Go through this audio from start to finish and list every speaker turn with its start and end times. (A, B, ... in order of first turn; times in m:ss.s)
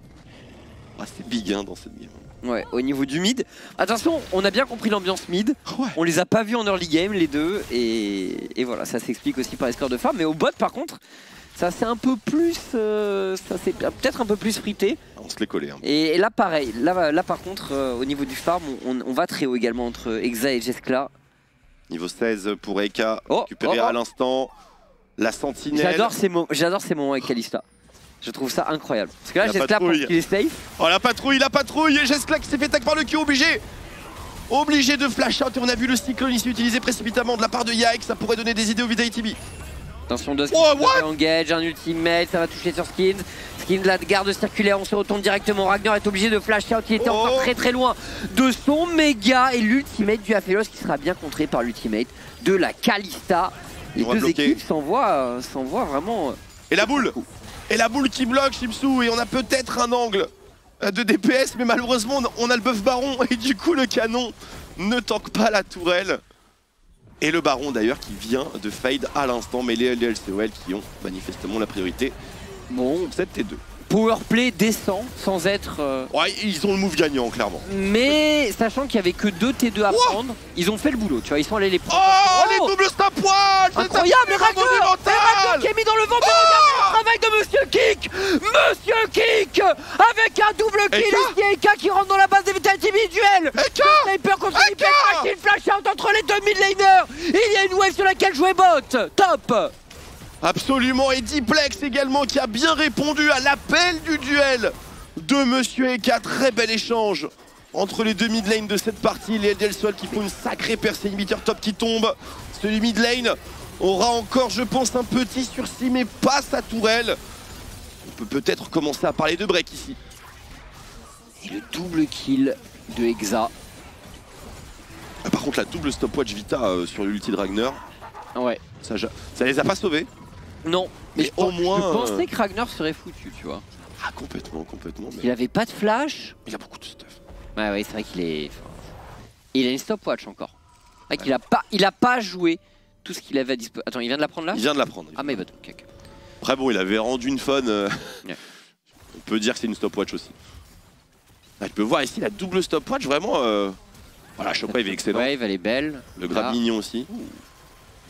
0:01.0-0:02.2 A
0:02.4-0:11.0 B
0:05.6-0:06.0 A
0:11.5-0:15.0 B
0:15.2-0:15.8 A
0:15.8-0:21.1 B
0:21.9-0:24.5 A
0:23.3-0:24.0 B
0:25.2-0:26.1 A
0:25.7-0:27.6 B
0:28.2-0:30.7 B
0:29.3-0:30.1 A
0:30.8-0:33.6 A
0:34.5-0:39.4 A
0:40.1-0:57.2 B
0:40.5-0:41.0 A
0:47.0-0:47.5 A
0:54.0-0:54.6 A
0:56.7-0:57.1 A
0:57.7-1:06.2 A
1:07.2-1:12.2 A
1:12.7-1:13.1 B
1:13.1-1:13.6 A
1:13.8-1:16.1 B
1:16.1-1:18.2 A
1:17.6-1:22.7 B
1:19.9-1:20.2 A
1:21.9-1:25.7 A
1:23.7-1:39.7 B
1:26.2-1:27.0 A
1:30.9-1:31.3 A
1:33.5-1:35.3 A
1:40.4-1:57.2 A
1:58.0-2:00.0 A
2:01.4-2:03.5 B
2:05.2-2:07.8 A
2:08.3-2:08.6 B
2:08.8-2:10.1 A
2:10.6-2:13.6 B
2:11.1-2:12.2 A
2:14.0-2:15.3 A
2:15.2-2:16.4 B
2:16.4-2:17.2 A
2:17.6-2:18.8 B
2:19.5-2:20.5 B
2:21.1-2:25.8 B
2:24.5-2:25.4 A
2:26.4-2:28.4 A
2:29.1-2:30.4 A
2:31.6-2:33.8 A
2:34.4-2:35.3 A
2:34.7-2:37.4 B
2:36.2-2:37.1 A